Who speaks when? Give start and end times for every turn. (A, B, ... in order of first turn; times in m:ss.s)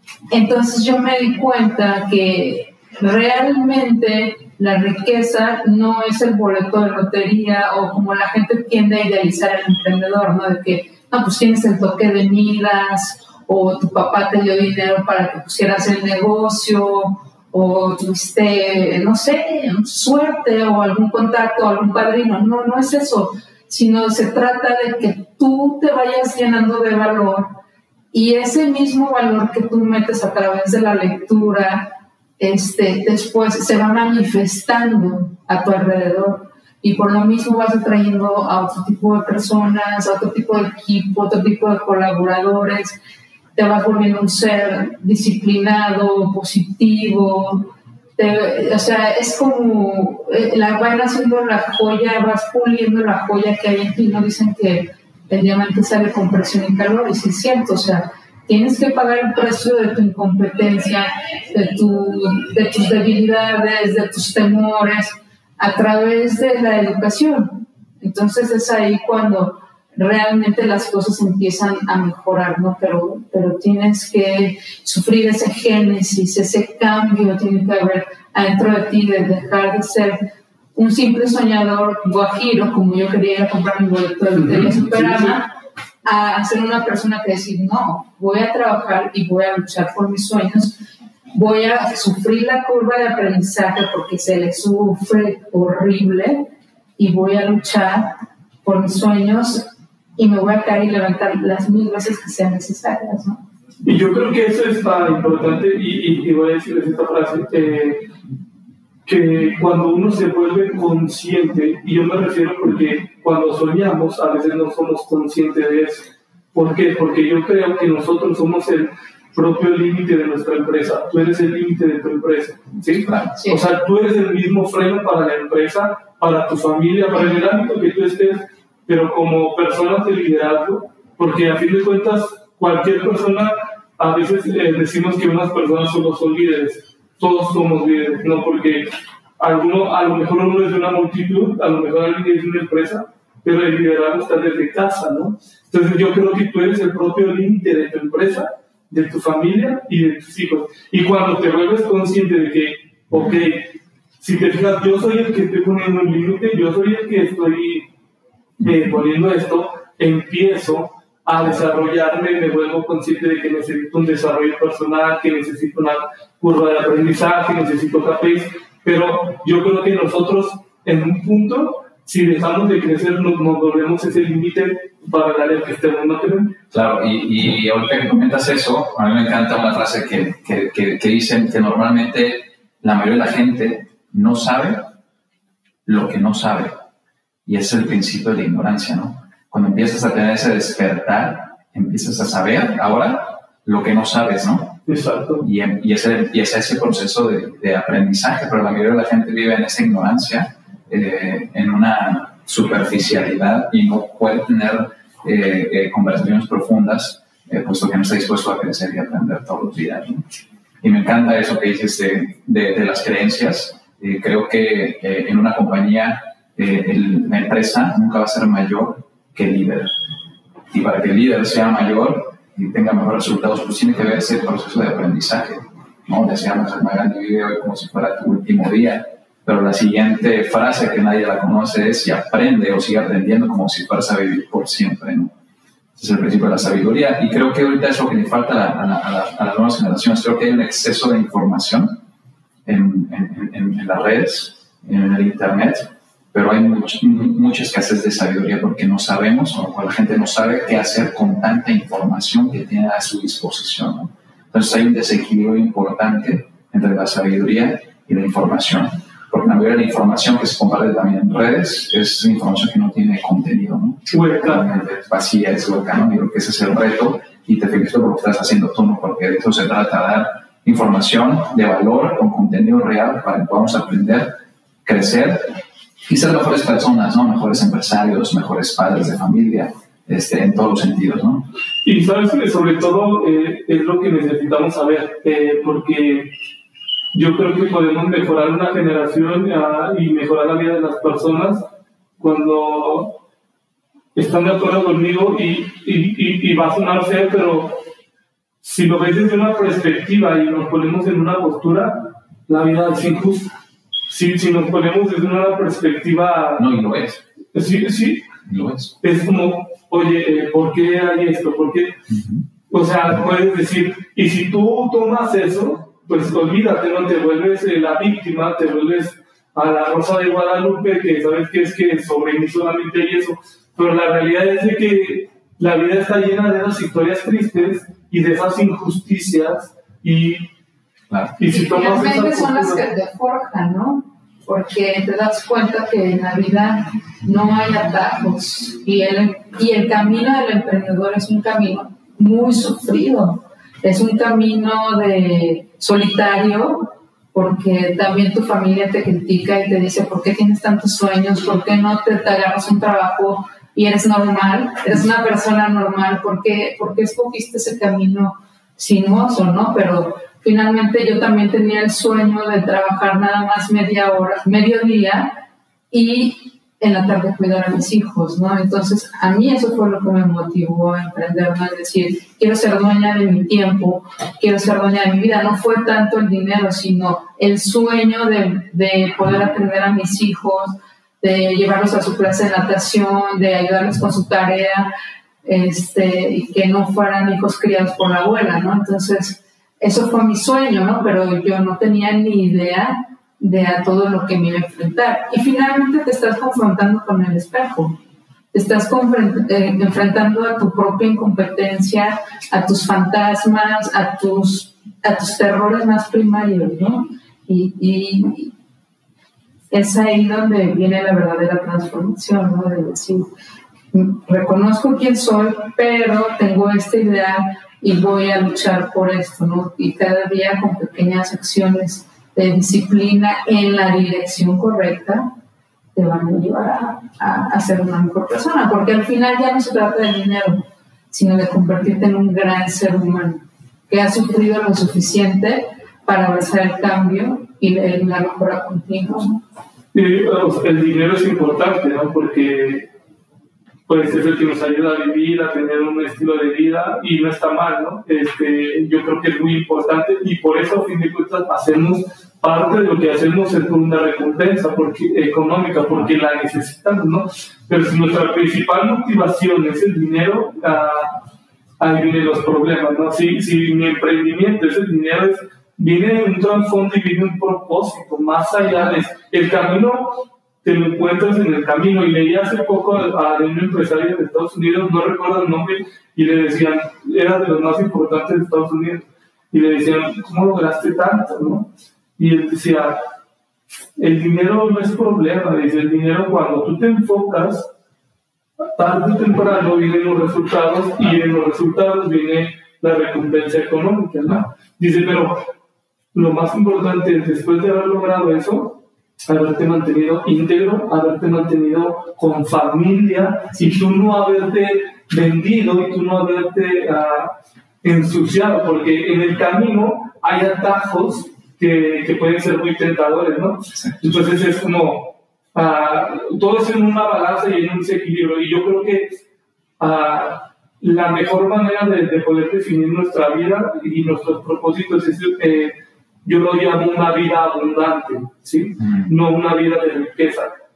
0:00.3-0:27.6 A
0:28.1-0:43.0 A
0:43.6-1:25.5 A
1:24.4-1:25.4 B
1:26.0-1:30.8 A
1:31.3-1:43.4 A
1:43.8-1:48.0 B
1:49.1-2:37.9 B
2:03.0-2:03.4 C
2:38.6-2:56.6 B
2:56.7-3:04.9 C
3:05.9-3:06.8 C
3:07.5-3:14.8 C
3:14.9-3:15.4 B
3:15.4-3:30.2 C
3:30.8-3:39.9 C
3:40.7-3:55.3 C
3:56.0-4:02.0 C
4:02.7-4:34.3 C
4:24.1-4:24.7 B
4:34.8-4:41.5 C
4:41.8-4:46.3 B
4:47.1-4:51.6 B
4:52.2-4:53.2 B
4:54.2-4:57.8 B
4:58.6-5:03.5 B
5:04.1-5:06.7 B
5:06.6-5:07.2 C
5:07.5-5:08.3 B
5:08.4-5:09.0 C
5:09.0-5:12.0 B
5:12.1-5:12.5 C
5:12.7-5:30.5 B
5:31.4-5:32.8 B
5:31.5-6:05.4 A
6:05.9-6:24.9 A
6:25.4-6:38.0 A
6:38.5-6:48.5 A
6:49.7-6:53.3 A
6:53.9-7:05.3 A
7:06.0-7:19.4 A
7:19.9-7:22.9 B
7:23.9-7:41.2 B
7:41.8-8:03.0 B
8:04.0-8:07.7 B
8:08.8-8:15.4 B
8:16.1-8:39.2 B
8:33.8-8:34.0 C
8:39.8-8:50.5 B
8:48.8-8:49.1 C